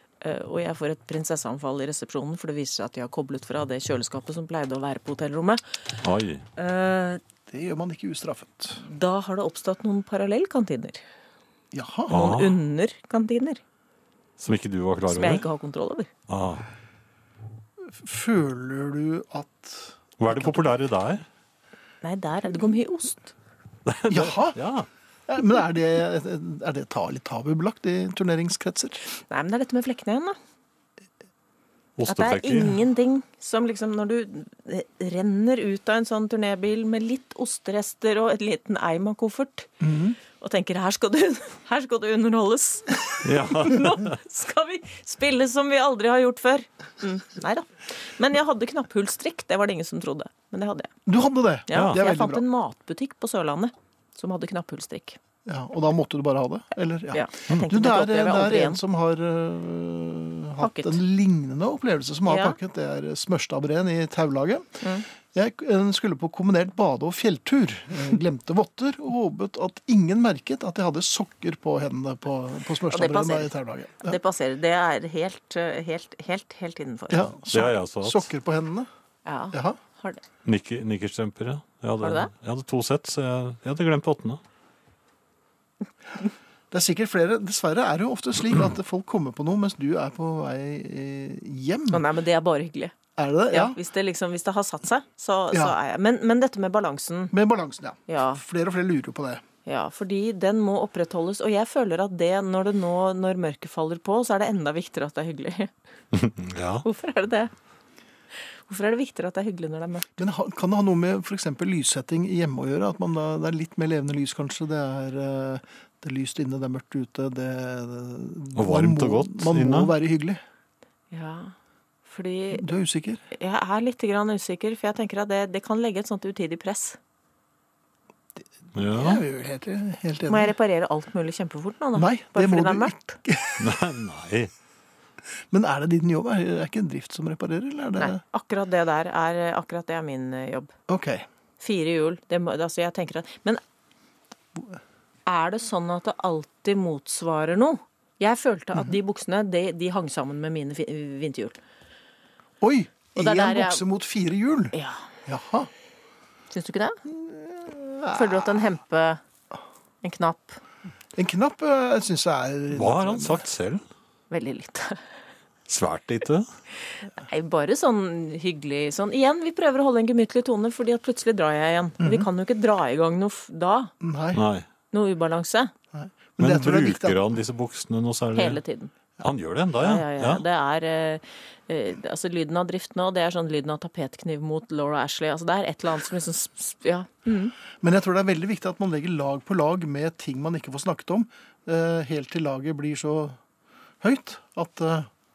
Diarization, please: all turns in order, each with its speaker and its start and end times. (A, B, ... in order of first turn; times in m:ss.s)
0:00.2-0:05.6 A
0:06.0-0:06.4 B
0:06.6-0:07.2 A
0:07.5-0:08.8 C
0:08.8-0:11.0 A
0:11.7-0:12.2 C
0:12.1-0:13.6 A
0:12.1-0:12.5 B
0:14.4-0:15.4 B
0:15.1-0:16.1 A
0:16.3-0:16.7 B
0:17.8-0:20.6 C
0:20.2-0:21.2 B
0:22.0-0:23.3 A
0:23.9-0:24.9 B
0:24.1-0:24.6 C
0:25.3-0:29.0 C
0:29.2-0:30.4 A
0:32.0-0:32.7 B
0:32.1-0:39.7 A
0:39.8-0:40.2 C
0:40.3-0:50.9 A
0:43.2-0:44.2 B
0:51.1-0:52.4 C
0:51.7-0:55.2 A
0:55.5-1:14.2 C
0:57.1-0:58.8 A
1:00.6-1:01.0 A
1:02.3-1:02.6 A
1:12.9-1:17.3 A
1:17.1-1:18.9 C
1:17.5-1:18.3 B
1:19.3-1:20.2 A
1:19.5-1:19.8 C
1:20.4-1:24.4 B
1:22.0-1:22.3 A
1:26.7-1:32.0 C
1:31.9-1:33.0 A
1:33.2-1:33.8 C
1:33.5-1:37.3 A
1:37.3-1:39.4 C
1:38.1-1:38.4 A
1:39.7-1:45.7 A
1:46.1-1:46.8 B
1:46.8-1:47.5 A
1:48.7-1:50.1 A
1:50.2-2:00.4 C
1:58.6-1:59.9 B
2:01.1-2:02.7 A
2:02.5-2:03.2 C
2:03.3-2:07.0 A
2:08.7-2:09.2 B
2:08.9-2:10.5 C
2:10.3-2:13.2 A
2:12.0-2:13.7 C
2:13.6-2:14.5 B
2:15.5-2:18.2 C
2:18.0-2:20.7 A
2:20.9-2:21.3 C
2:21.6-2:23.6 A
2:25.3-2:31.6 A
2:32.6-2:34.7 C
2:33.2-2:33.8 A
2:34.7-2:35.0 A
2:35.3-2:35.7 C
2:36.5-2:37.0 A
2:37.1-2:38.6 C
2:38.1-2:39.2 A
2:40.0-2:40.6 A
2:41.2-2:43.4 C
2:42.7-2:43.8 B
2:44.3-2:45.0 A
2:45.7-2:46.5 B
2:47.2-2:53.9 A
2:52.0-2:52.3 C
2:54.0-2:54.4 C
2:54.3-2:54.6 B
2:54.9-2:55.7 A
2:55.9-2:57.3 C
2:56.4-2:58.6 B
2:58.4-2:58.9 A
2:59.2-3:00.4 B
2:59.8-3:07.6 A
3:07.8-3:13.4 C
3:14.0-3:15.1 C